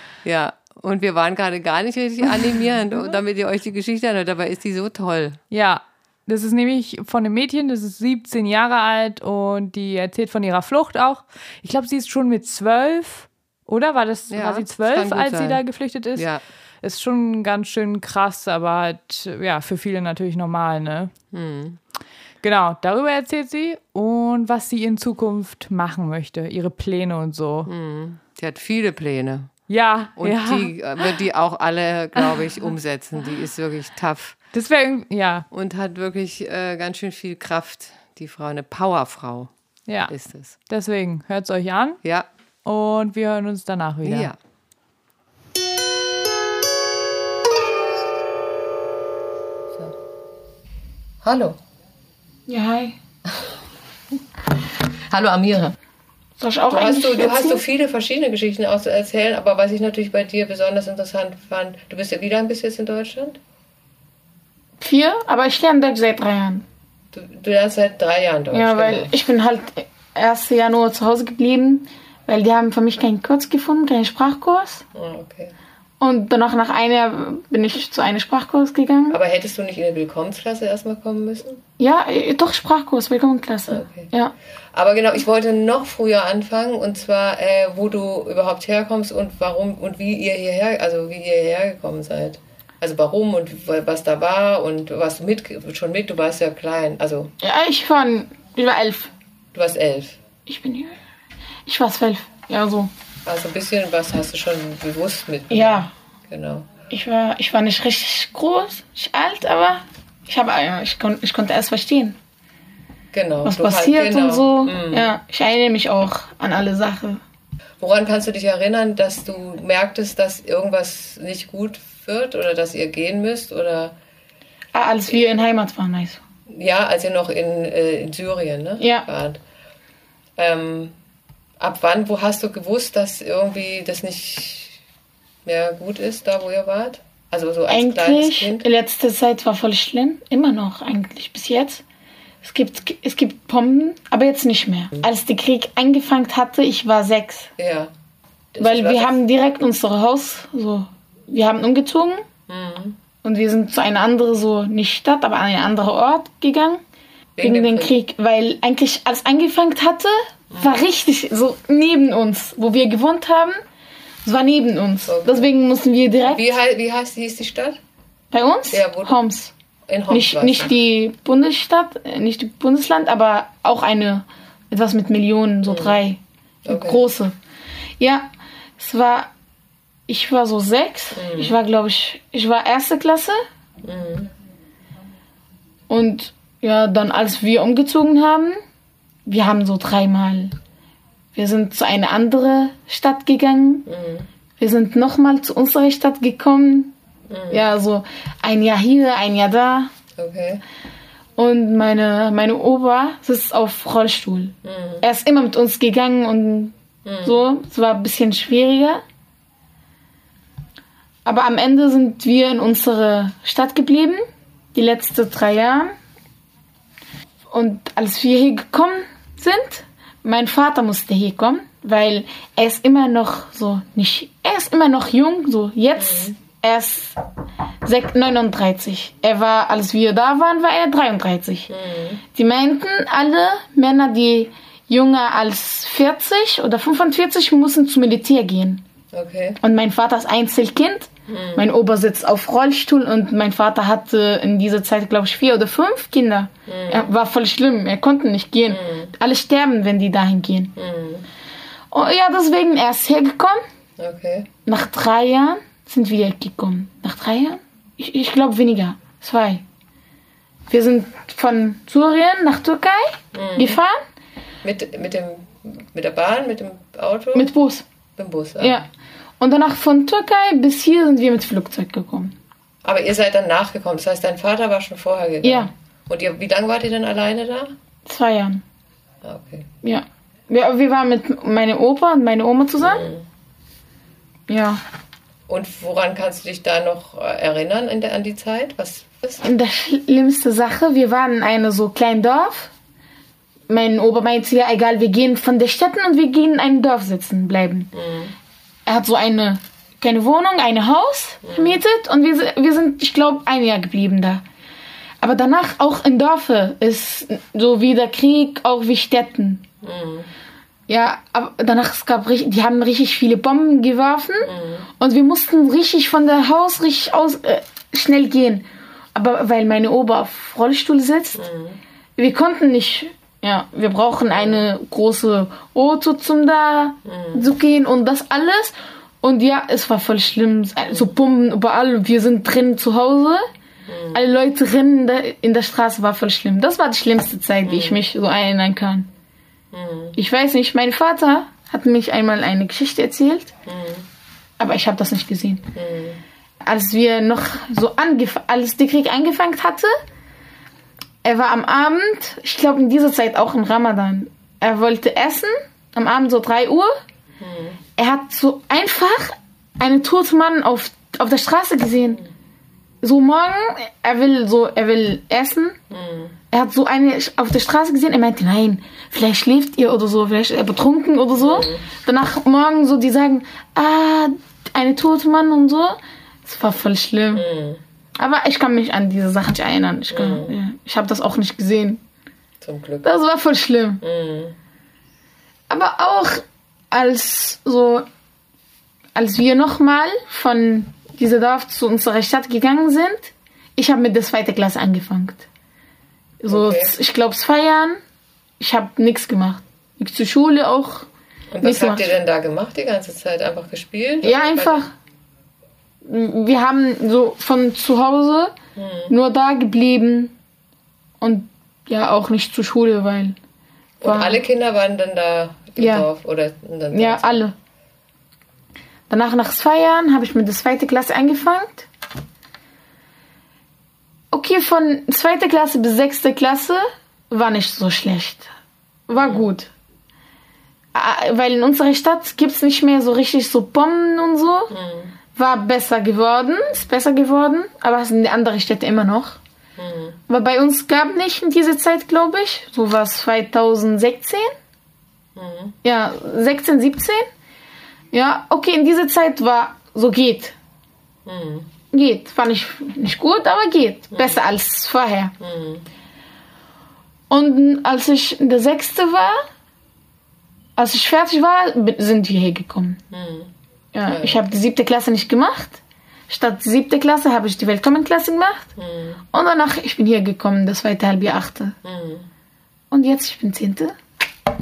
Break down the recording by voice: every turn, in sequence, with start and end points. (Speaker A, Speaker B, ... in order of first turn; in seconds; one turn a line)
Speaker A: 0.2-5.4
Speaker B: 5.5-16.3
Speaker A: 14.3-15.6
Speaker A: 16.1-16.4
Speaker B: 16.8-21.1
Speaker A: 21.3-21.8
Speaker B: 22.4-27.7
Speaker A: 27.7-29.5
Speaker B: 29.7-31.2
Speaker A: 30.2-34.4
Speaker B: 32.2-32.5
Speaker B: 34.5-35.5
Speaker A: 35.5-39.5
Speaker B: 39.9-40.1
Speaker A: 40.1-40.6
Speaker B: 40.7-42.0
Speaker B: 42.6-44.3
Speaker A: 44.0-44.4
Speaker A: 51.2-51.6
Speaker C: 52.5-53.0
Speaker A: 55.1-55.8
Speaker C: 56.4-57.6
Speaker A: 56.7-63.4
Speaker C: 64.8-66.7
Speaker A: 67.1-69.1
Speaker C: 68.5-74.8
Speaker A: 74.9-75.5
Speaker C: 76.0-79.2
Speaker A: 79.1-81.6
Speaker C: 81.8-84.3
Speaker A: 83.7-84.1
Speaker A: 84.7-97.3
Speaker C: 97.4-99.1
Speaker A: 99.5-100.2
Speaker C: 100.5-101.0
Speaker C: 101.7-102.9
Speaker A: 103.2-106.7
Speaker C: 105.5-105.9
Speaker C: 106.9-112.2
Speaker A: 113.1-115.1
Speaker C: 113.5-117.2
Speaker A: 117.8-124.0
Speaker C: 124.7-126.2
Speaker A: 126.5-129.4
Speaker C: 128.8-129.1
Speaker A: 130.4-131.0
Speaker A: 131.6-134.8
Speaker A: 135.4-138.7
Speaker C: 137.7-141.8
Speaker C: 142.4-147.5
Speaker A: 147.6-147.9
Speaker A: 148.5-149.2
Speaker C: 148.6-152.2
Speaker A: 152.5-153.0
Speaker C: 153.2-156.8
Speaker A: 157.4-157.9
Speaker C: 157.4-163.6
Speaker C: 164.2-166.5
Speaker A: 165.1-165.5
Speaker A: 166.2-167.8
Speaker C: 168.3-169.5
Speaker A: 168.7-169.2
Speaker A: 169.9-170.8
Speaker C: 170.1-177.3
Speaker A: 175.7-176.0
Speaker A: 176.7-177.0
Speaker C: 178.0-178.3
Speaker C: 178.8-179.3
Speaker C: 180.1-183.4
Speaker A: 181.2-181.6
Speaker A: 183.8-184.3
Speaker C: 185.9-188.6
Speaker C: 189.3-190.6
Speaker C: 191.3-193.9
Speaker A: 193.9-194.3
Speaker C: 194.6-196.9
Speaker A: 197.3-197.6
Speaker C: 197.5-199.9
Speaker A: 200.1-200.6
Speaker C: 201.4-209.0
Speaker A: 204.6-205.0
Speaker A: 207.1-207.4
Speaker C: 211.2-214.2
Speaker C: 214.7-215.9
Speaker C: 217.5-227.2
Speaker A: 226.0-226.4
Speaker C: 227.8-231.7
Speaker A: 231.7-232.2
Speaker C: 232.3-238.8
Speaker A: 239.1-239.6
Speaker C: 239.6-250.8
Speaker A: 241.3-241.7
Speaker A: 246.7-247.1
Speaker A: 248.7-249.1
Speaker A: 250.8-251.3
Speaker C: 251.9-253.6
Speaker A: 254.0-254.5
Speaker C: 254.7-259.6
Speaker C: 260.7-264.0
Speaker A: 263.3-263.8
Speaker A: 264.6-267.5
Speaker C: 267.3-267.9
Speaker A: 268.2-268.8
Speaker C: 268.6-268.9
Speaker C: 269.4-272.3
Speaker A: 272.8-277.7
Speaker C: 275.4-275.7
Speaker C: 278.1-278.6
Speaker A: 279.2-279.7
Speaker C: 279.8-283.1
Speaker A: 282.8-283.3
Speaker C: 284.5-284.8
Speaker A: 285.5-289.4
Speaker C: 289.4-292.7
Speaker C: 293.7-297.9
Speaker A: 297.9-298.4
Speaker C: 298.9-304.4
Speaker A: 301.4-301.8
Speaker C: 305.2-309.6
Speaker A: 309.8-310.3
Speaker C: 310.9-321.4
Speaker A: 314.4-314.9
Speaker A: 321.4-321.8
Speaker C: 322.2-333.5
Speaker A: 324.4-324.6
Speaker A: 327.1-327.5
Speaker A: 333.9-334.2
Speaker C: 334.1-339.1
Speaker A: 337.6-338.0
Speaker A: 339.7-340.2
Speaker C: 340.2-343.5
Speaker A: 343.6-344.1
Speaker C: 344.6-345.7
Speaker A: 345.7-346.2
Speaker C: 346.6-349.9
Speaker C: 351.2-356.9
Speaker A: 357.4-357.8
Speaker C: 358.0-362.2
Speaker C: 363.0-365.8
Speaker A: 365.9-366.4
Speaker C: 366.5-377.4
Speaker A: 371.4-371.9
Speaker A: 377.3-377.8
Speaker C: 378.2-382.0
Speaker A: 380.1-380.6
Speaker A: 382.6-383.1
Speaker C: 383.0-384.0
Speaker A: 384.0-384.6
Speaker C: 385.7-388.1
Speaker C: 389.2-395.5
Speaker C: 396.4-398.0
Speaker A: 396.5-396.9
Speaker C: 398.6-401.1
Speaker A: 401.5-404.9
Speaker C: 401.6-402.1
Speaker C: 404.2-404.9
Speaker C: 406.1-408.6
Speaker A: 408.8-409.1
Speaker C: 409.1-410.3
Speaker C: 411.2-413.4
Speaker A: 414.0-417.4
Speaker C: 414.0-414.4
Speaker C: 415.8-416.1
Speaker C: 416.9-417.5
Speaker C: 419.1-421.9
Speaker C: 424.3-428.5
Speaker C: 429.1-429.7
Speaker A: 429.1-429.5
Speaker C: 430.9-434.7
Speaker A: 434.7-435.1
Speaker C: 435.3-439.4
Speaker A: 439.8-440.2
Speaker C: 440.3-444.5
Speaker A: 445.4-445.8
Speaker C: 445.8-447.3
Speaker C: 448.1-450.6
Speaker A: 451.2-451.7
Speaker C: 451.9-455.3
Speaker A: 454.1-454.4
Speaker A: 455.4-455.9
Speaker C: 457.3-459.4
Speaker C: 460.8-463.0
Speaker A: 463.1-463.5
Speaker C: 463.9-468.7
Speaker A: 464.1-464.4
Speaker A: 468.8-469.2
Speaker C: 469.3-471.8
Speaker A: 471.8-472.3
Speaker C: 472.9-474.0